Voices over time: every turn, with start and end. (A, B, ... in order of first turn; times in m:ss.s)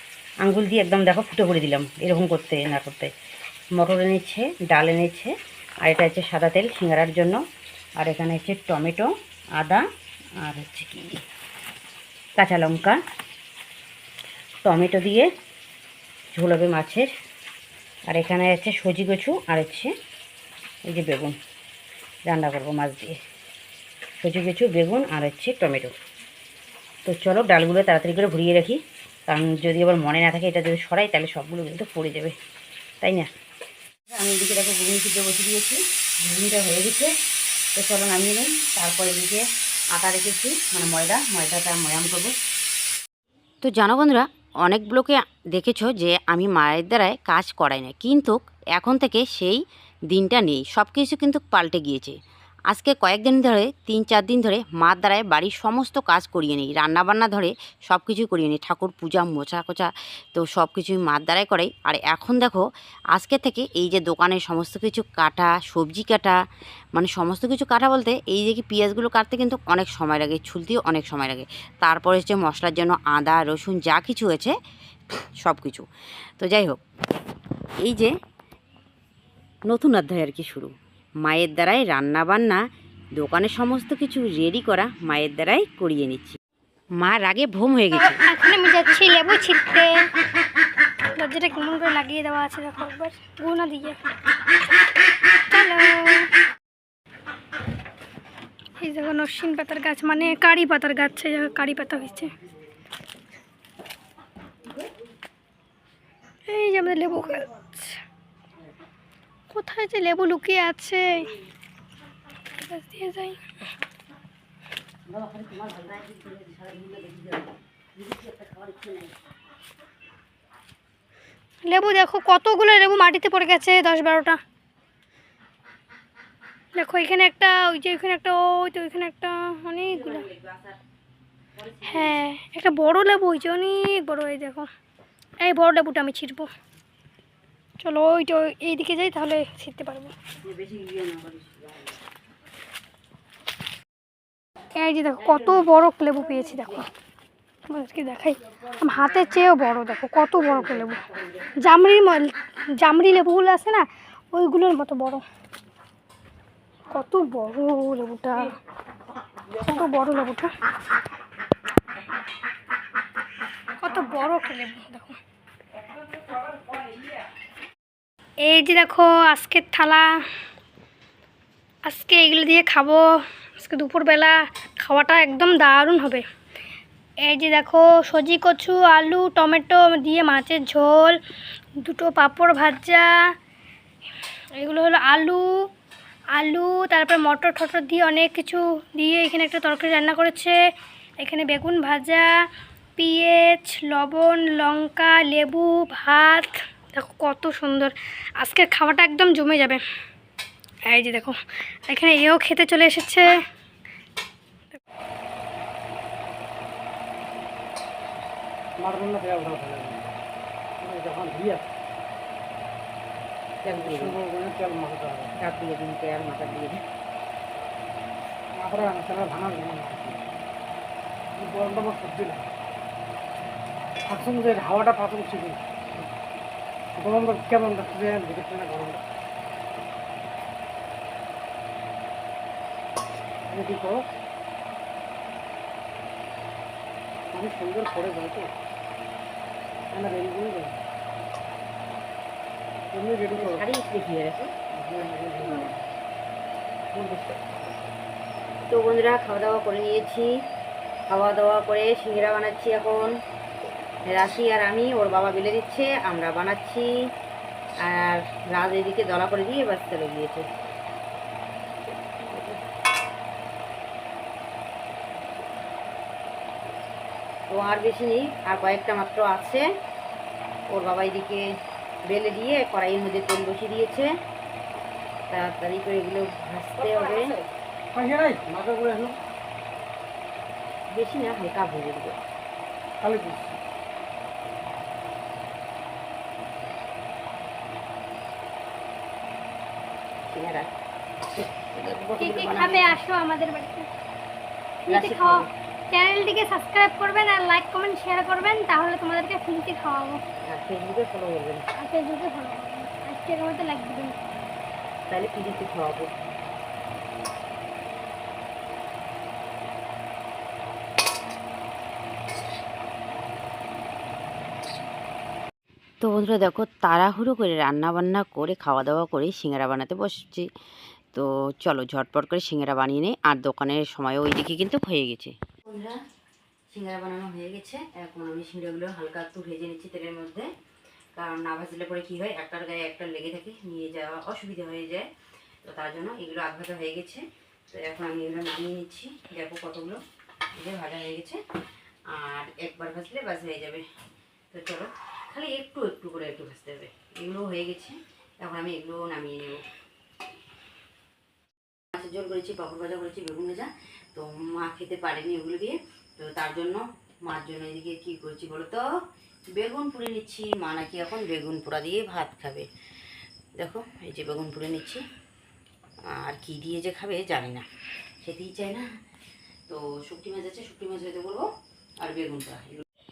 0:00.4-0:03.1 A
0:03.8-0:07.4 A
0:08.0-0:09.8 A
0:10.4-0:11.2 A
0:12.4-0:13.0 A
0:14.6-0:15.3 A
0:16.3-0:17.1 A
0:18.1-0:19.9 A
0:20.9-0:21.4 A
0:22.3-0:23.2 A
0:24.2-0:25.9 A
0:27.0-0:32.4 A
0:33.0-0:33.3 A
0:34.1-0:37.1 A
0:37.8-0:39.4 A
0:39.9-0:42.3 A
0:43.6-0:52.2 A
0:52.7-1:06.4 A
1:06.9-1:14.5 A
1:15.4-1:15.9 A
1:16.4-1:16.8 A
1:17.8-1:18.1 A
1:19.7-1:20.7 A
1:21.2-1:22.6 A
1:23.2-1:26.4 A
1:27.0-1:28.2 A
1:27.9-1:30.1 B
1:31.1-1:34.0 B
1:35.5-1:36.3 B
1:38.8-1:42.3 B
1:46.5-1:48.0 B
1:49.5-1:51.3 B
1:52.5-1:53.6 B
1:55.1-1:57.5 A
1:58.0-1:59.1 A
2:01.6-2:04.4 B
2:06.7-2:10.3 B
2:09.9-2:10.8 A
2:11.6-2:12.1 A
2:11.8-2:14.7 B
2:15.4-2:16.5 B
2:17.8-2:20.1 B
2:20.4-2:21.7 A
2:24.8-2:26.9 B
2:27.7-2:31.0 B
2:31.6-2:35.2 B
2:36.9-2:38.5 B
2:39.5-2:40.5 B
2:43.8-2:45.2 B
2:48.4-2:50.2 B
2:51.8-2:56.2 B
2:57.2-3:01.2 B
3:01.8-3:03.3 B
3:04.6-3:05.7 B
3:06.4-3:10.6 B
3:11.2-3:12.3 B
3:13.0-3:19.8 B
3:20.9-3:23.3 B
3:28.8-3:30.0 C
3:30.8-3:31.6 C
3:33.6-3:34.2 A
3:33.8-3:35.3 C
3:35.4-3:36.8 A
3:38.5-3:40.2 C
3:41.4-3:42.5 C
3:44.0-3:45.6 C
3:47.0-3:49.0 C
3:53.5-3:54.0 C
3:57.3-3:58.5 C
3:59.9-4:00.8 C
4:02.9-4:03.6 C
4:03.1-4:04.5 A
4:04.7-4:05.8 C
4:06.9-4:07.6 C
4:08.7-4:10.3 A
4:11.1-4:13.1 A
4:14.0-4:16.9 A
4:17.8-4:20.5 A
4:22.2-4:22.6 A
4:27.5-4:29.7 A
4:30.7-4:31.4 A
4:32.1-4:34.1 A
4:35.3-4:37.4 A
4:37.9-4:39.2 C
4:40.9-4:42.2 A
4:43.0-4:43.6 C
4:50.3-4:50.7 A
4:51.5-4:53.0 A
4:52.2-4:53.9 B
4:54.8-5:00.2 B
4:54.9-4:55.5 A
5:00.4-5:01.6 A
5:01.7-5:04.2 B
5:05.1-5:06.1 A
5:16.0-5:20.5 A
5:21.1-5:26.0 A
5:26.7-5:30.5 A
5:31.2-5:35.0 A
5:35.6-5:40.0 A
5:40.6-5:41.4 A
5:42.1-5:43.8 A
5:44.5-5:49.6 A
5:51.9-5:58.8 A
5:59.5-6:02.7 A
6:03.6-6:05.0 A
6:06.1-6:07.6 A
6:08.2-6:08.8 A
6:09.7-6:11.4 A
6:12.0-6:12.8 A